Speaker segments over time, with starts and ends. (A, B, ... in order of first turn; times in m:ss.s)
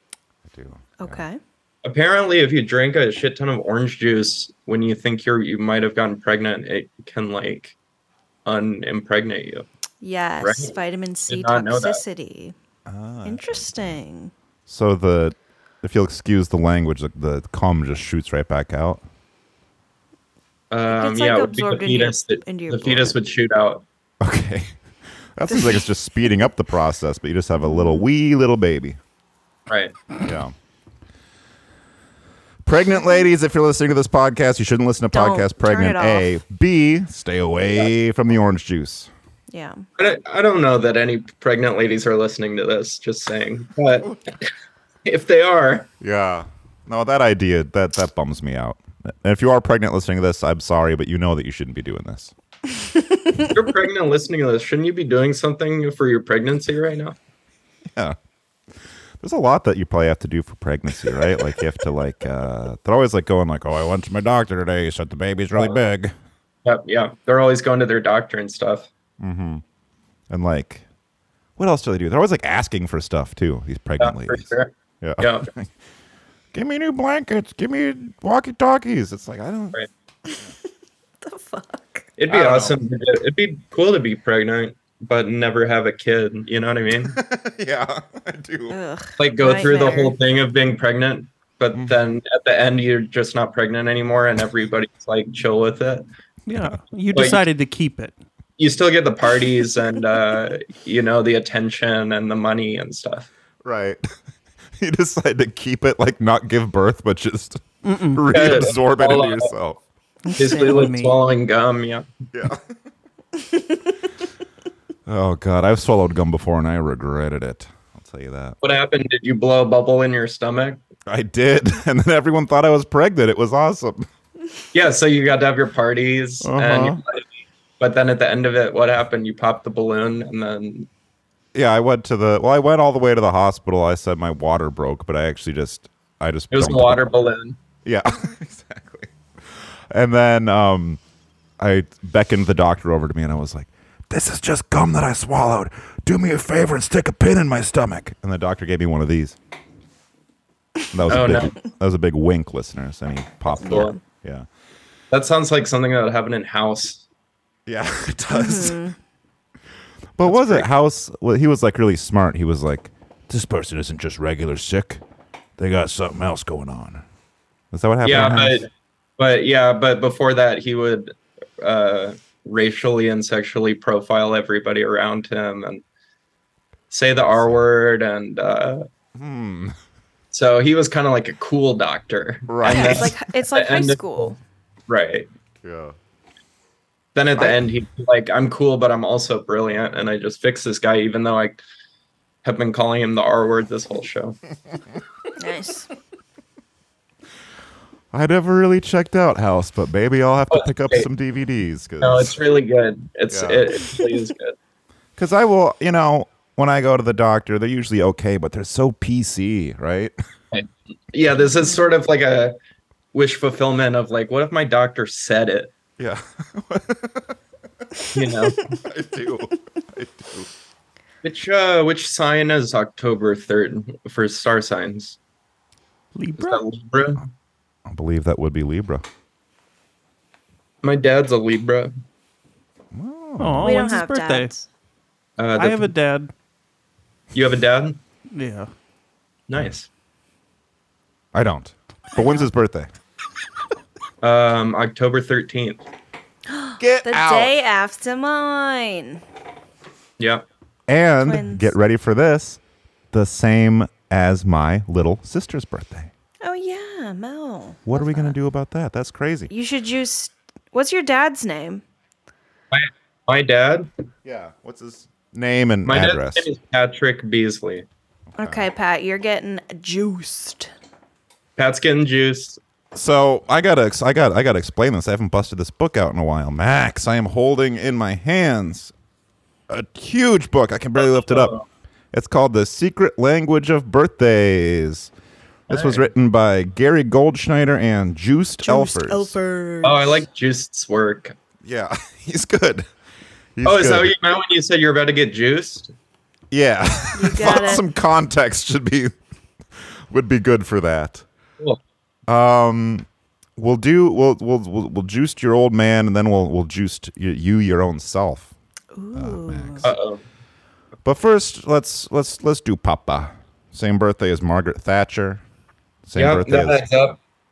0:00.4-0:01.2 A
0:01.0-0:01.4 B
0:01.8-0:07.7 C
0:08.4-0:09.6 C
0:10.0-0:12.5 B
0:10.4-0:10.7 C
0:11.3-0:12.0 C
0:12.8-0:14.0 A
0:13.2-0:14.3 B
0:14.6-0:19.0 A
0:20.7-0:23.8 C
0:20.9-0:23.4 B
0:24.2-0:24.7 A
0:25.3-0:29.0 A
0:25.5-0:25.8 B
0:27.6-0:28.1 B
0:29.7-0:30.0 C
0:30.2-0:30.5 A
0:32.6-0:39.1 A
0:35.1-0:36.3 B
0:39.5-0:39.8 B
0:40.0-0:44.1 C
0:45.0-0:45.9 C
0:46.0-0:52.3 A
0:53.5-0:57.2 C
0:59.2-1:06.1 A
1:06.6-1:08.9 C
1:09.2-1:09.6 A
1:10.3-1:10.8 A
1:11.6-1:14.5 A
1:14.0-1:15.5 C
1:15.0-1:15.7 A
1:16.5-1:19.8 A
1:21.2-1:22.1 B
1:22.2-1:27.2 C
1:22.3-1:22.8 A
1:27.0-1:28.8 A
1:28.7-1:30.2 B
1:29.2-1:36.0 C
1:36.5-1:38.1 D
1:37.1-1:37.4 C
1:38.6-1:43.3 C
1:43.6-1:44.0 A
1:44.8-1:49.8 A
1:47.8-1:48.7 D
1:48.3-1:49.5 C
1:50.3-1:51.2 D
1:50.4-1:52.1 C
1:52.3-1:52.6 A
1:55.0-1:58.6 A
1:58.6-2:00.8 C
2:01.1-2:04.1 A
2:04.7-2:07.3 C
2:06.4-2:07.0 D
2:07.8-2:10.9 C
2:11.5-2:17.0 A
2:16.5-2:17.6 C
2:17.8-2:21.0 A
2:21.6-2:29.4 A
2:30.9-2:34.5 A
2:31.1-2:31.6 C
2:33.5-2:34.0 B
2:33.6-2:33.9 C
2:35.1-2:37.0 C
2:37.7-2:38.8 A
2:38.3-2:38.9 B
2:40.2-2:45.0 A
2:40.3-2:40.7 C
2:45.6-2:47.0 A
2:47.7-2:48.7 A
2:48.0-2:55.8 C
2:56.9-2:58.8 C
2:57.2-2:57.7 A
2:59.2-2:59.8 A
3:00.3-3:04.0 C
3:02.5-3:03.2 A
3:02.6-3:04.4 B
3:04.9-3:05.3 C
3:05.6-3:05.9 A
3:07.1-3:11.6 C
3:12.4-3:14.4 C
3:15.4-3:15.9 B
3:18.1-3:22.4 A
3:20.5-3:21.0 C
3:22.0-3:24.6 C
3:23.3-3:23.8 A
3:25.2-3:30.1 A
3:30.5-3:32.5 C
3:33.1-3:35.7 C
3:36.0-3:37.4 A
3:38.1-3:38.6 C
3:38.7-3:40.5 A
3:41.2-3:45.2 C
3:46.1-3:46.6 D
3:46.4-3:47.2 C
3:47.9-3:49.0 A
3:50.8-3:51.9 C
3:52.9-3:53.8 A
3:53.4-3:54.5 D
3:53.6-3:54.6 B
3:55.4-3:55.9 C
3:55.6-3:56.3 D
3:57.3-3:58.0 C
3:58.3-3:58.7 D
3:59.5-3:59.9 C
4:01.3-4:02.9 A
4:02.1-4:02.5 B
4:04.2-4:05.8 C
4:06.5-4:09.2 B
4:06.8-4:07.5 A
4:10.2-4:10.4 C
4:10.9-4:12.6 A
4:11.2-4:11.7 B
4:13.1-4:16.1 A
4:16.4-4:18.4 B
4:17.8-4:19.5 A
4:19.5-4:21.8 B
4:22.7-4:23.9 C
4:24.2-4:26.5 A
4:25.8-4:27.9 C
4:28.3-4:28.7 A
4:28.4-4:30.7 B
4:31.6-4:32.6 C
4:32.9-4:38.9 A
4:39.7-4:41.5 A
4:41.0-4:41.6 C
4:42.1-4:45.1 A
4:45.7-4:49.4 A
4:45.7-4:46.0 C
4:48.6-4:50.2 B
4:49.8-4:51.3 C
4:51.6-4:52.9 A
4:53.6-4:54.1 A
4:53.6-4:55.9 C
4:56.5-4:59.1 A
4:57.1-4:57.8 B
4:59.8-5:01.2 A
5:02.3-5:03.0 A
5:03.6-5:08.5 A
5:08.9-5:09.9 B
5:09.1-5:10.0 A
5:09.8-5:10.2 C
5:11.0-5:15.4 A
5:16.0-5:16.9 A
5:16.1-5:17.2 C